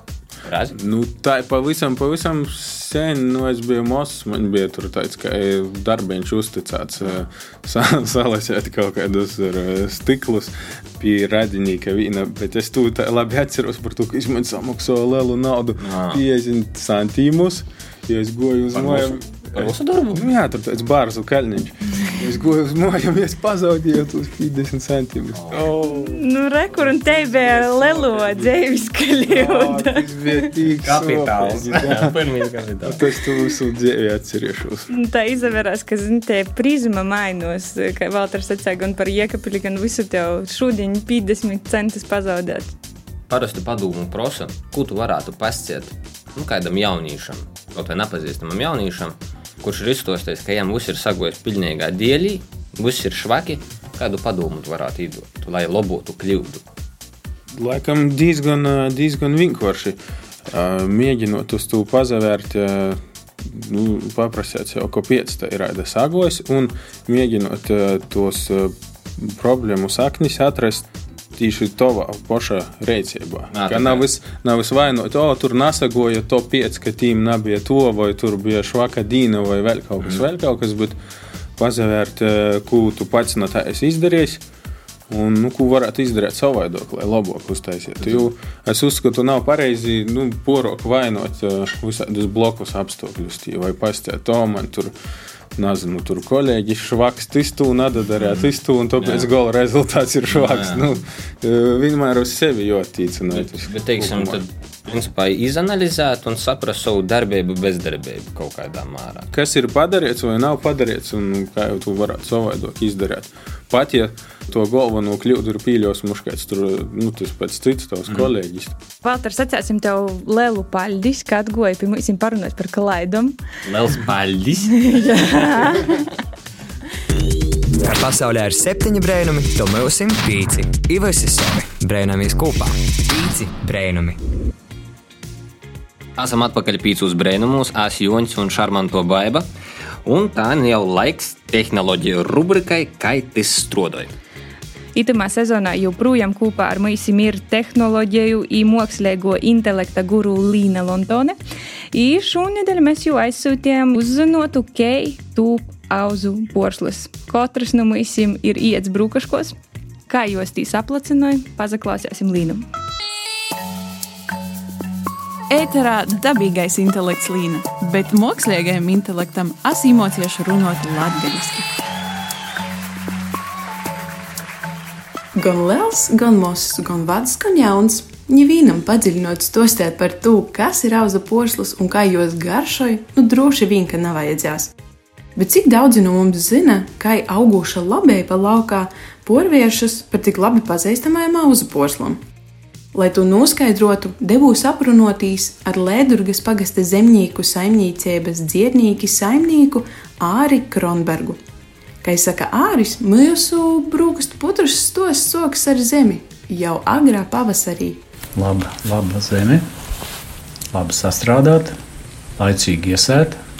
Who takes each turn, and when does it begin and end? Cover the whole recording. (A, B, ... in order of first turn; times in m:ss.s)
0:00.4-0:00.7 A
0:00.7-0:28.5 B
0:15.8-0:16.2 A
0:18.7-0:20.3 A
0:25.3-0:25.7 A
0:25.8-0:30.1 C
0:29.3-0:32.2 B
0:30.8-0:33.0 A
0:32.8-0:34.9 B
0:34.9-0:42.7 C
0:43.3-0:56.6 A
0:57.6-1:10.9 B
1:11.4-1:21.0 B
1:13.5-1:14.0 A
1:21.6-1:24.4 B
1:25.1-1:34.9 B
1:35.6-1:44.4 B
1:39.0-1:39.3 A
1:40.3-1:40.8 A
1:43.3-1:49.3 A
1:49.3-1:58.7 B
1:59.0-2:03.4 C
2:03.7-2:06.0 A
2:04.8-2:06.0 C
2:07.8-2:14.2 D
2:16.2-2:19.5 A
2:20.0-2:24.1 A
2:25.0-2:31.4 C
2:31.9-2:39.6 C
2:40.1-2:42.6 C
2:45.5-2:51.7 E
2:55.4-3:04.7 F
3:05.4-3:12.2 F
3:12.9-3:21.4 F
3:22.0-3:28.0 F
3:28.4-3:29.6 G
3:30.7-3:31.8 G
3:32.4-3:33.4 G